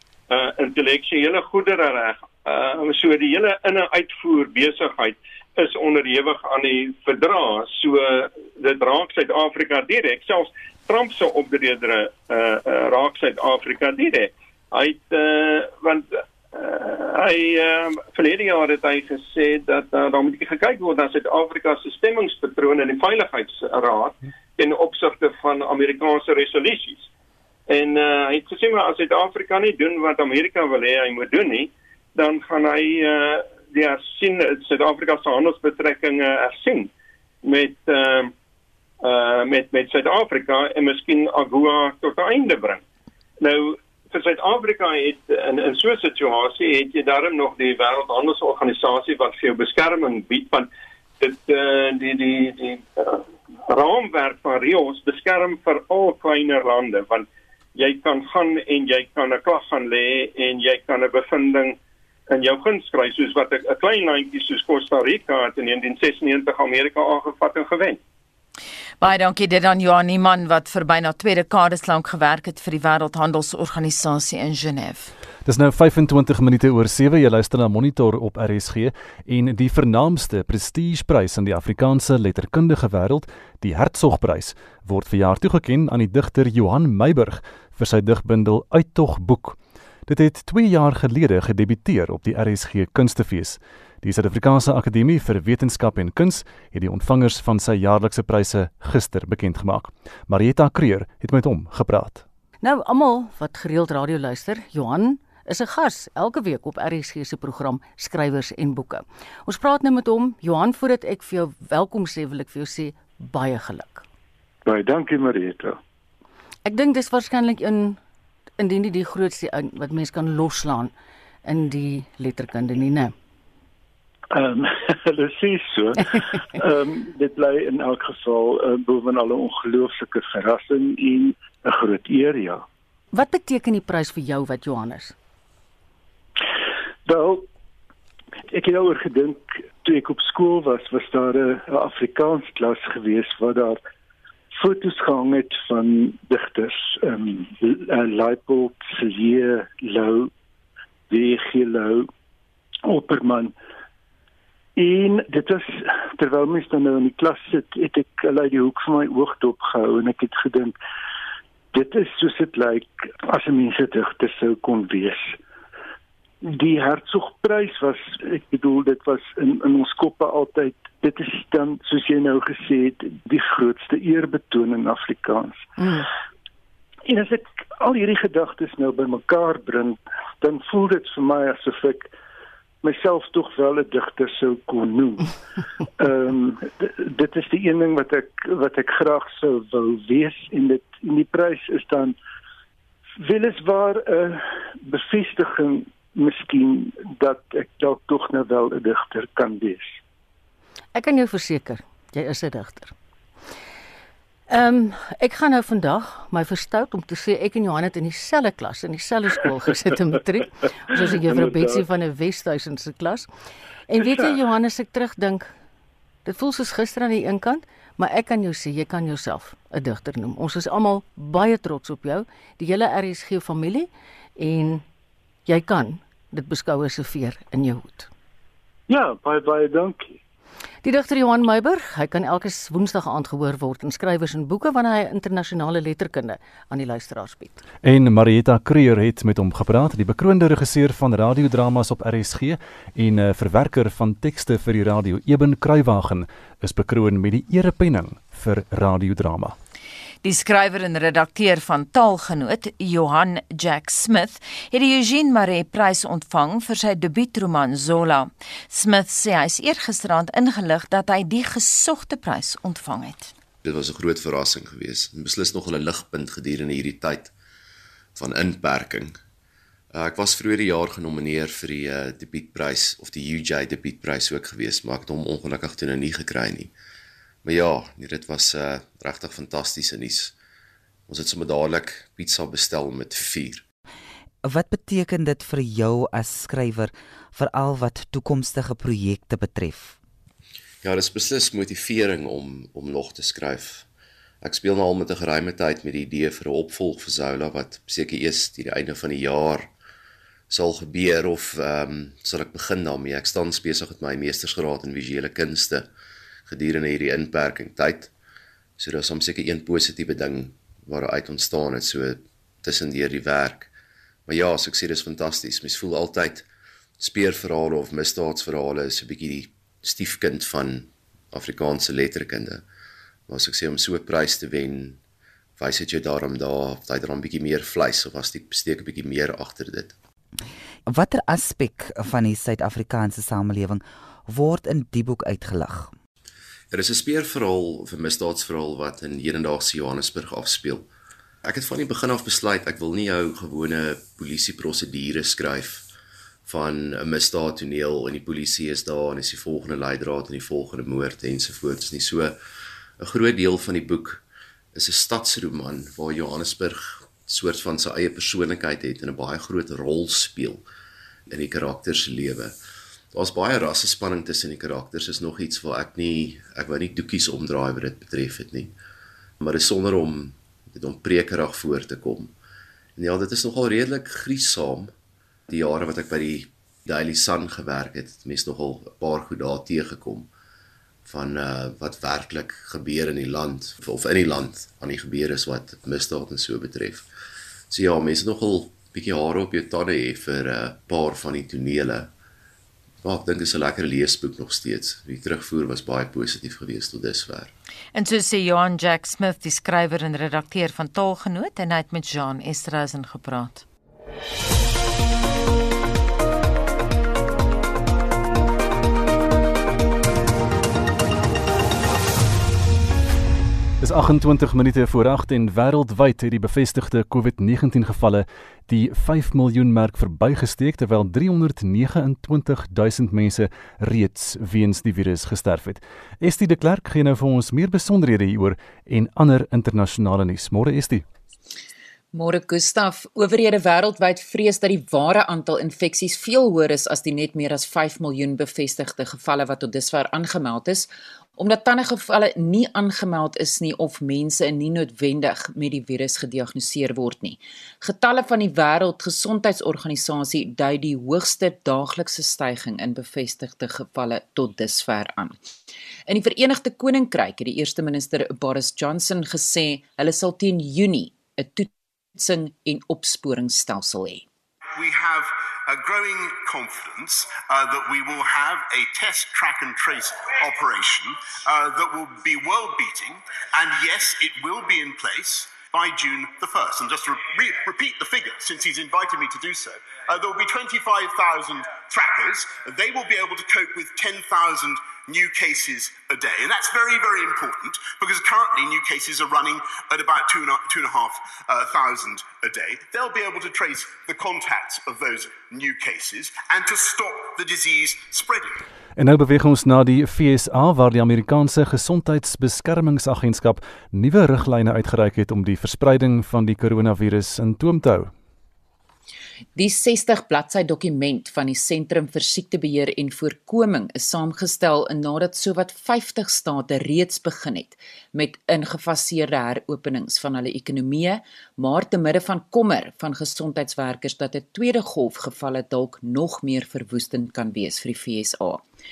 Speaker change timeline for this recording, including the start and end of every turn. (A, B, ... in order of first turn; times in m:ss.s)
0:00.3-0:27.1 A
0:27.7-0:36.9 A
0:37.4-0:38.3 A
0:39.0-0:42.8 A
0:43.4-0:50.7 A
0:51.2-1:01.8 A
1:02.3-1:08.0 A
1:09.0-1:15.1 B
1:15.4-1:42.2 C
1:42.6-1:54.0 D
1:54.6-1:55.8 E
1:56.6-1:58.0 D
1:58.6-2:00.9 D
2:01.4-2:03.2 D
2:04.3-2:12.6 E
2:13.1-2:15.2 D
2:17.1-2:17.5 E
2:18.5-2:23.8 E
2:24.5-2:30.3 E
2:31.1-2:32.1 E
2:32.9-2:33.6 E
2:34.8-2:40.8 E
2:41.7-2:45.4 E
2:46.4-2:55.7 E
2:55.8-2:56.1 D
2:57.1-3:02.1 E
3:02.8-3:05.3 E
3:06.0-3:12.2 E
3:13.2-3:20.0 E
3:20.9-3:22.9 D
3:24.5-3:33.3 D
3:30.9-3:31.8 E
3:33.9-3:35.5 D
3:34.0-3:34.3 E
3:36.2-3:44.8 D
3:45.5-3:48.1 D
3:48.9-3:50.1 E
3:50.8-3:57.6 D
3:57.8-4:09.6 C
4:10.2-4:23.3 B
4:23.6-4:27.3 F
4:28.2-4:29.2 F
4:29.9-4:36.7 F
4:37.4-4:40.3 F
4:41.1-4:43.6 F
4:44.4-4:50.0 G
4:50.8-4:53.9 F
4:54.4-4:59.7 F
5:00.5-5:05.9 F
5:06.5-5:08.1 F
5:08.8-5:13.7 F
5:14.3-5:16.5 F
5:17.0-5:22.6 F
5:23.3-5:25.0 F
5:25.6-5:30.0 F
5:30.9-5:35.9 G
5:36.7-5:40.9 F
5:41.4-5:45.9 F
5:46.5-5:52.4 F
5:53.0-5:54.2 F
5:54.7-6:00.6 F
6:01.3-6:02.6 F
6:03.1-6:08.8 F
6:09.4-6:12.3 F
6:13.0-6:14.9 F
6:15.5-6:20.3 F
6:21.0-6:27.1 F
6:27.7-6:32.1 F
6:33.0-6:37.5 F
6:37.9-6:43.7 B
6:53.8-7:11.0 C
7:12.1-7:35.5 H
7:36.1-7:44.2 H
7:44.8-8:18.6 I
8:19.0-8:28.1 C
8:29.6-8:48.7 H